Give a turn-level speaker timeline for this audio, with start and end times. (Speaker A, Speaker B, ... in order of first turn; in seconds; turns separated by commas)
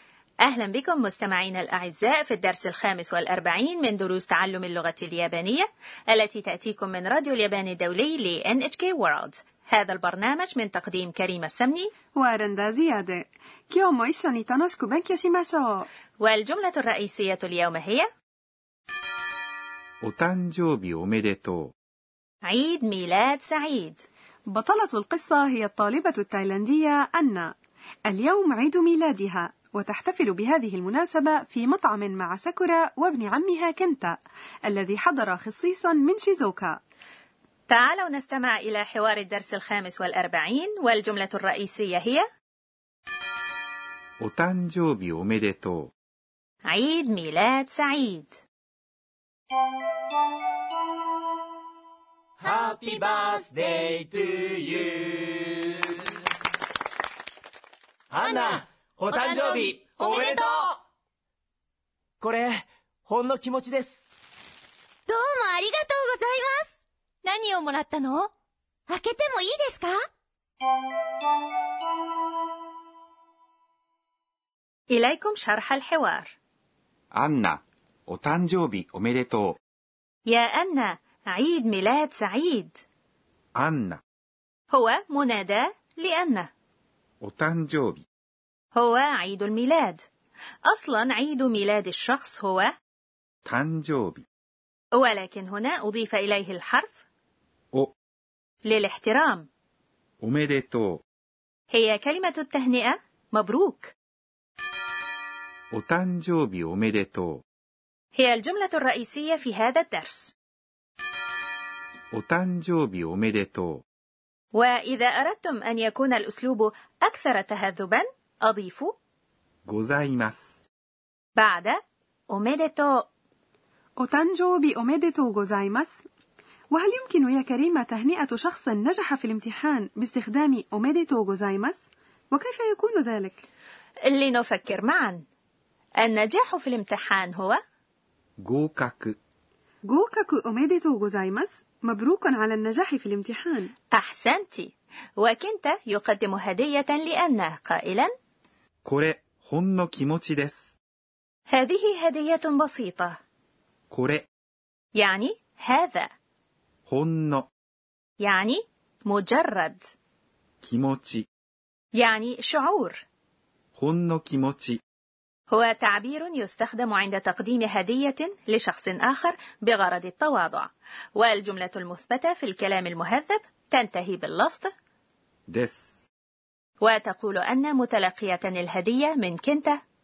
Speaker A: 0.4-11.9, Speaker B: 12.2-15.9, Speaker A: 16.2-18.1, Speaker C: 20.0-21.7, Speaker A: 22.4-24.0, Speaker B: 24.5-27.5, Speaker B: 28.1-36.8, Speaker A: 37.7-42.2, Speaker C: 44.2-45.9, Speaker A: 46.7-48.4, Speaker D: 52.4-55.1, Speaker D: 58.1-60.8, Speaker E: 58.2-58.5, Speaker E: 59.1-60.5, Speaker D: 62.2-64.0, Speaker E: 65.1-66.7, Speaker E: 67.2-68.3, Speaker E: 68.9-70.0, Speaker A: 74.9-76.3, Speaker C: 77.1-79.6, Speaker A: 80.3-82.8, Speaker C: 83.6-84.0, Speaker A: 84.7-86.5, Speaker C: 87.2-88.0, Speaker A: 88.8-90.0, Speaker A: 90.7-92.7, Speaker C: 93.5-94.2, Speaker A: 95.0-97.0, Speaker A: 98.7-99.5, Speaker C: 100.2-101.0, Speaker A: 101.7-103.9, Speaker C: 105.7-107.4, Speaker A: 108.2-110.3, Speaker C: 112.1-113.8, Speaker A: 114.5-118.9, Speaker C: 119.7-120.5, Speaker A: 121.4-123.0, Speaker B: 124.0-126.0, Speaker B: 126.7-133.4, Speaker A: 134.1-135.2, Speaker A: 136.0-137.6, Speaker C: 138.4-139.2, Speaker B: 139.9-143.7, Speaker A: 144.0-148.1, Speaker C: 148.8-150.7, Speaker A: 151.5-153.2, Speaker C: 153.9-154.3, Speaker A: 154.9-156.1, Speaker C: 156.9-157.5, Speaker A: 158.2-159.9, Speaker C: 160.6-161.2, Speaker A: 161.9-163.0, Speaker C: 163.8-164.8, Speaker A: 165.5-174.7, Speaker C: 175.5-175.9, Speaker A: 176.8-179.8